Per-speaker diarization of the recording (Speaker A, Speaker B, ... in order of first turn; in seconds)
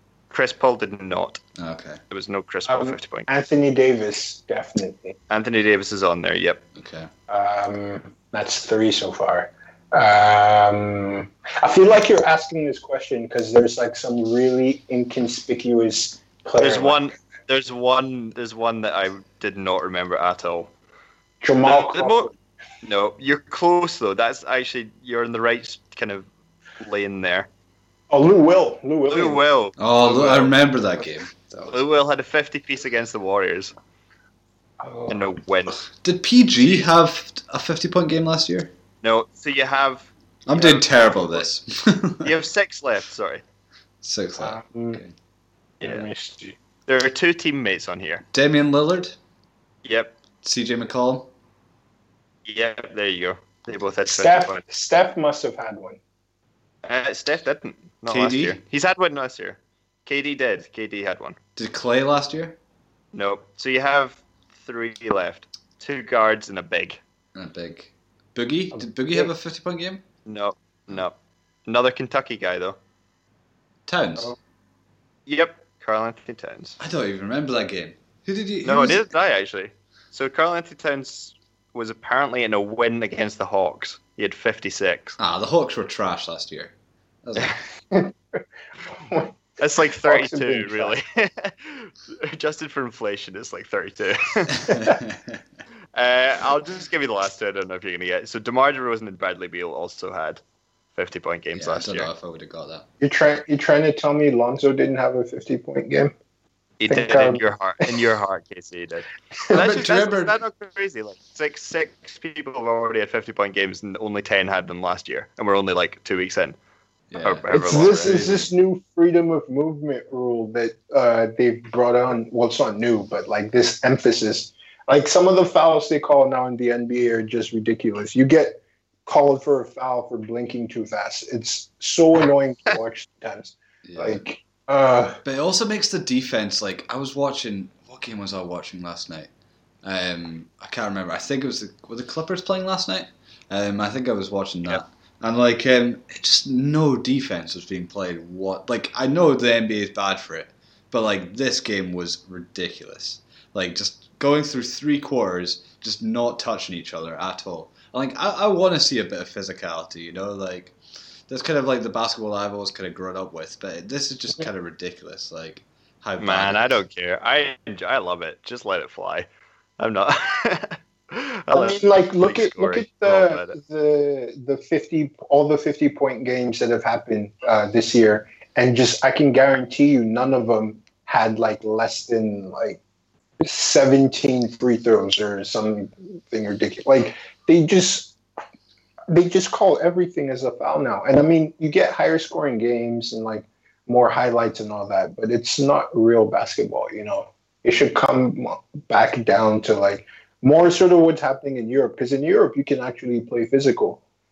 Speaker A: 0.3-1.4, 2.1-3.3, 5.3-6.6, 16.6-20.7, 21.6-22.3, 22.8-26.3, 26.8-27.5, 29.1-30.5, 31.7-33.7, 35.1-35.8, 39.0-41.5, 42.2-43.4, 46.9-48.2, 49.8-50.1, 52.5-54.6, 56.8-61.4, 63.1-67.0, 70.2-71.1, 71.7-72.8, 75.2-76.8, 78.6-85.2, 89.6-94.7, 95.9-100.4, 100.9-102.1, 106.8-116.5, 117.2-118.2, 166.2-169.2, 169.8-173.6
Speaker B: 1.6-2.0, 6.8-7.1, 29.8-31.8, 35.7-38.7, 40.5-42.3, 44.0-45.1, 48.3-49.1, 50.4-51.3, 58.1-58.6, 61.5-62.5, 67.3-70.0, 73.9-74.3, 76.8-79.1, 85.2-86.7, 87.2-87.6, 94.5-95.4, 101.5-102.8, 109.5-110.4, 117.1-118.5, 133.8-134.2, 135.2-139.3, 139.8-160.7, 161.3-166.8
Speaker C: 2.7-5.2, 7.3-17.1, 21.4-22.4, 28.1-29.4, 30.1-30.4, 34.8-35.2, 44.4-45.0, 45.8-46.6, 54.0-56.0, 87.9-91.0, 103.0-106.1, 106.9-107.4, 117.5-135.2, 171.5-182.8, 183.4-188.2, 189.1-204.0